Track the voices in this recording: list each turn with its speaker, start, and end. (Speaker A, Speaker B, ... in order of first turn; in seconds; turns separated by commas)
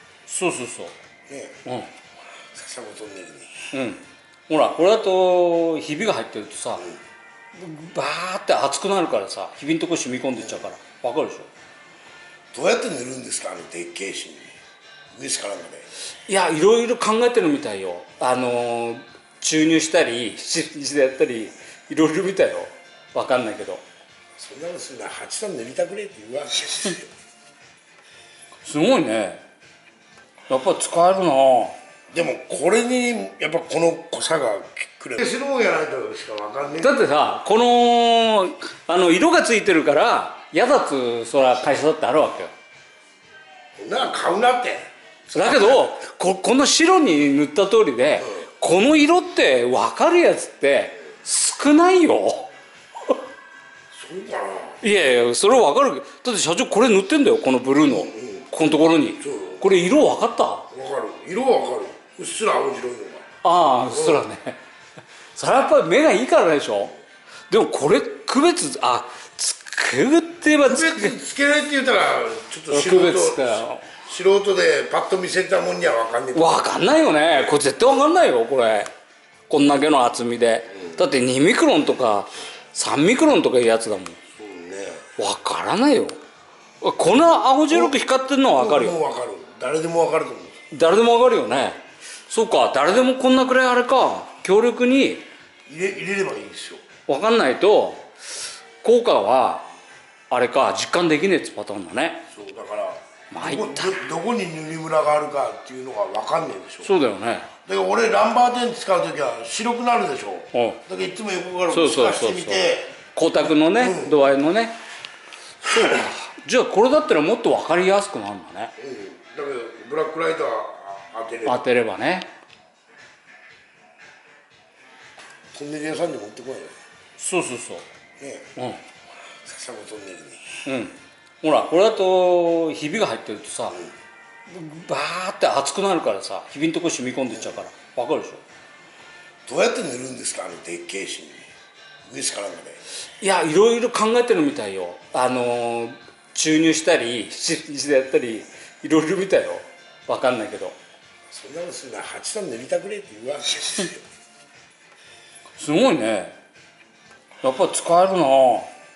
Speaker A: 0.3-0.9, Speaker B: 1.3-1.6, Speaker B: 2.5-3.7, Speaker A: 3.7-6.8, Speaker A: 7.5-11.5, Speaker B: 12.5-14.6, Speaker B: 15.1-15.9, Speaker A: 16.3-23.8, Speaker B: 24.4-27.1, Speaker A: 28.6-29.4, Speaker A: 30.5-31.8, Speaker B: 32.1-37.0, Speaker A: 36.8-42.5, Speaker B: 43.8-45.9, Speaker A: 45.3-52.5, Speaker B: 53.9-54.8, Speaker A: 54.8-60.7, Speaker B: 57.9-58.5, Speaker B: 59.2-59.8, Speaker B: 60.7-63.3, Speaker A: 63.4-64.6, Speaker B: 63.9-64.2, Speaker A: 65.3-66.9, Speaker A: 67.5-71.1, Speaker B: 70.6-76.6, Speaker A: 72.7-73.9, Speaker A: 76.3-78.9, Speaker A: 79.5-84.2, Speaker B: 84.3-85.1, Speaker A: 85.2-86.1, Speaker A: 86.8-89.0, Speaker B: 88.6-90.6, Speaker A: 90.7-95.2, Speaker B: 95.7-96.8, Speaker A: 97.1-98.1, Speaker A: 98.8-99.7, Speaker A: 100.3-102.2, Speaker B: 102.3-106.9, Speaker A: 103.3-104.0, Speaker A: 106.8-107.5, Speaker B: 107.6-112.9, Speaker A: 110.5-110.8, Speaker A: 111.7-112.6, Speaker A: 113.1-114.8, Speaker B: 113.8-114.1, Speaker A: 115.6-118.7, Speaker B: 118.8-121.6, Speaker A: 121.4-122.3, Speaker B: 125.5-126.7, Speaker A: 127.2-127.8, Speaker B: 128.2-128.5, Speaker A: 128.6-128.8, Speaker B: 129.4-130.6, Speaker A: 130.7-133.8, Speaker A: 134.5-138.4, Speaker B: 139.4-141.4, Speaker B: 142.1-142.8, Speaker A: 143.2-150.8, Speaker B: 151.3-154.0, Speaker A: 155.6-156.4, Speaker A: 157.4-158.7